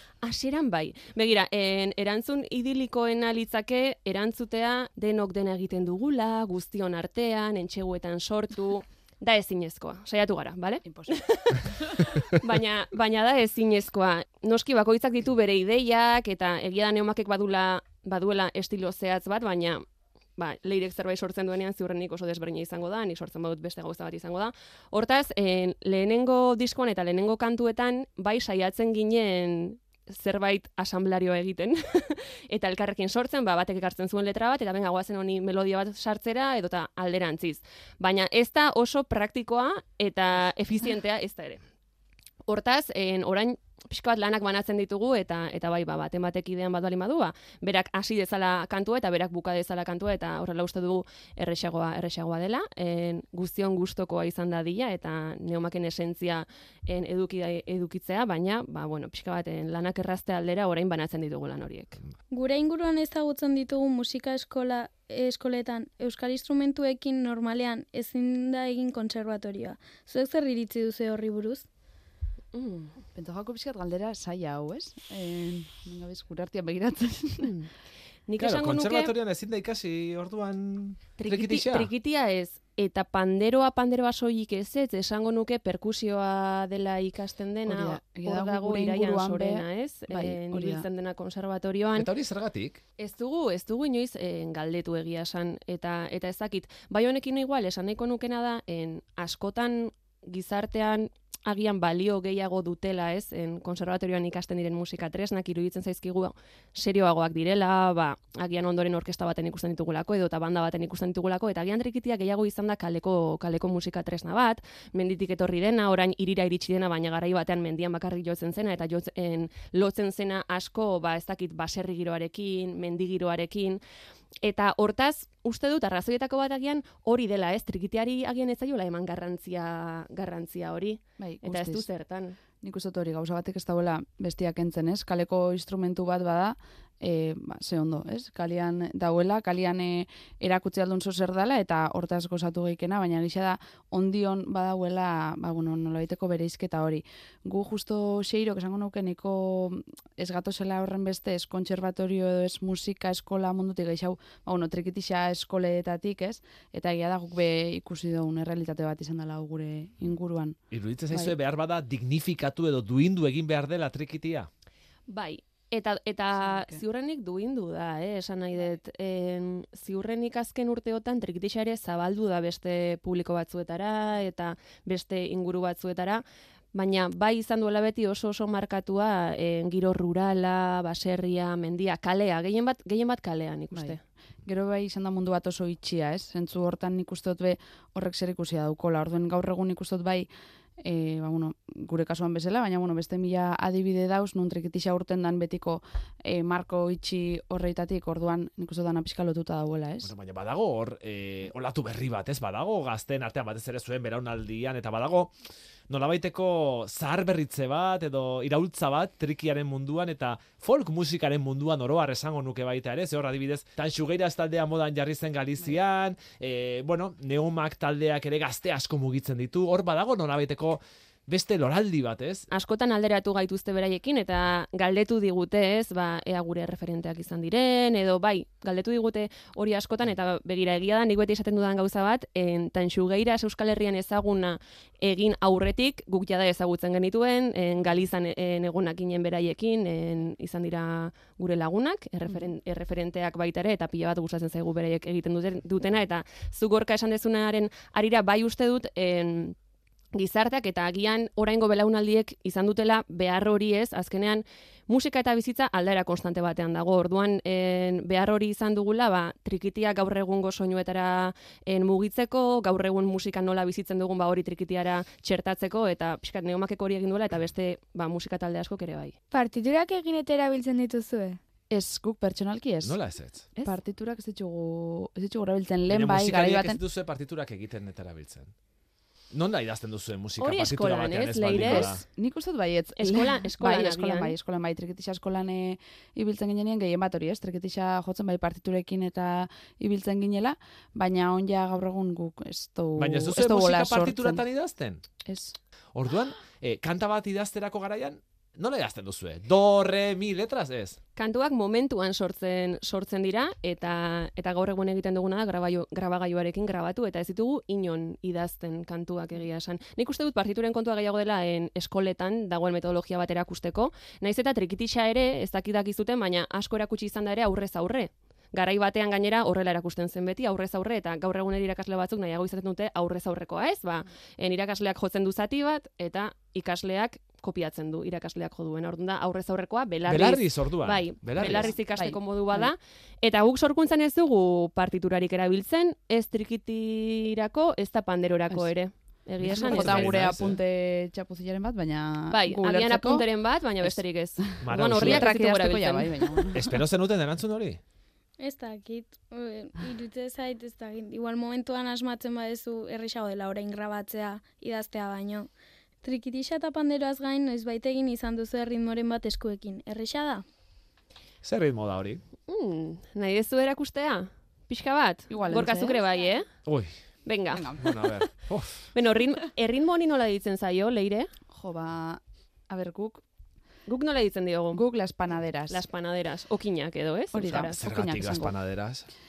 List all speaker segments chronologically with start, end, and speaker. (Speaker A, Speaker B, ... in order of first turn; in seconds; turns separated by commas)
Speaker A: 0.2-19.8, Speaker B: 10.8-11.2, Speaker A: 20.4-41.6, Speaker A: 42.5-62.0, Speaker C: 62.3-71.7, Speaker A: 72.5-73.0, Speaker B: 73.1-77.5, Speaker A: 77.4-77.7, Speaker A: 78.3-79.1, Speaker D: 78.4-81.9, Speaker A: 81.2-92.1, Speaker B: 87.7-90.9, Speaker D: 91.9-92.8, Speaker A: 93.0-123.8, Speaker A: 124.4-132.4, Speaker B: 131.2-131.9, Speaker B: 132.6-160.6, Speaker D: 160.7-164.5, Speaker A: 165.1-184.0, Speaker B: 166.4-166.8, Speaker B: 183.7-190.3, Speaker B: 190.8-200.1, Speaker D: 200.0-205.3, Speaker D: 205.9-222.5, Speaker A: 222.5-249.5, Speaker A: 250.1-269.1, Speaker E: 269.3-271.4, Speaker B: 271.7-273.0, Speaker D: 272.8-273.5, Speaker B: 273.6-276.8, Speaker D: 275.9-278.5, Speaker D: 279.3-282.0, Speaker A: 280.4-281.9, Speaker B: 281.5-294.4, Speaker A: 283.0-284.4, Speaker D: 293.0-295.0, Speaker B: 295.2-295.6, Speaker D: 295.9-301.0, Speaker A: 301.1-340.2, Speaker D: 330.0-331.7, Speaker B: 331.4-332.7, Speaker B: 339.4-346.8, Speaker D: 339.4-340.6, Speaker A: 342.3-346.5, Speaker D: 344.6-345.3, Speaker D: 346.5-347.8, Speaker C: 348.4-355.5, Speaker C: 356.0-360.4, Speaker D: 361.4-362.2, Speaker A: 362.5-366.5, Speaker B: 365.3-366.1, Speaker D: 366.6-366.9, Speaker A: 367.2-367.7, Speaker B: 367.5-368.2, Speaker D: 367.8-368.9, Speaker A: 368.9-371.3, Speaker B: 371.5-373.2, Speaker A: 373.9-374.8, Speaker B: 374.7-375.9, Speaker A: 375.7-377.8, Speaker B: 377.3-378.6, Speaker D: 377.6-379.1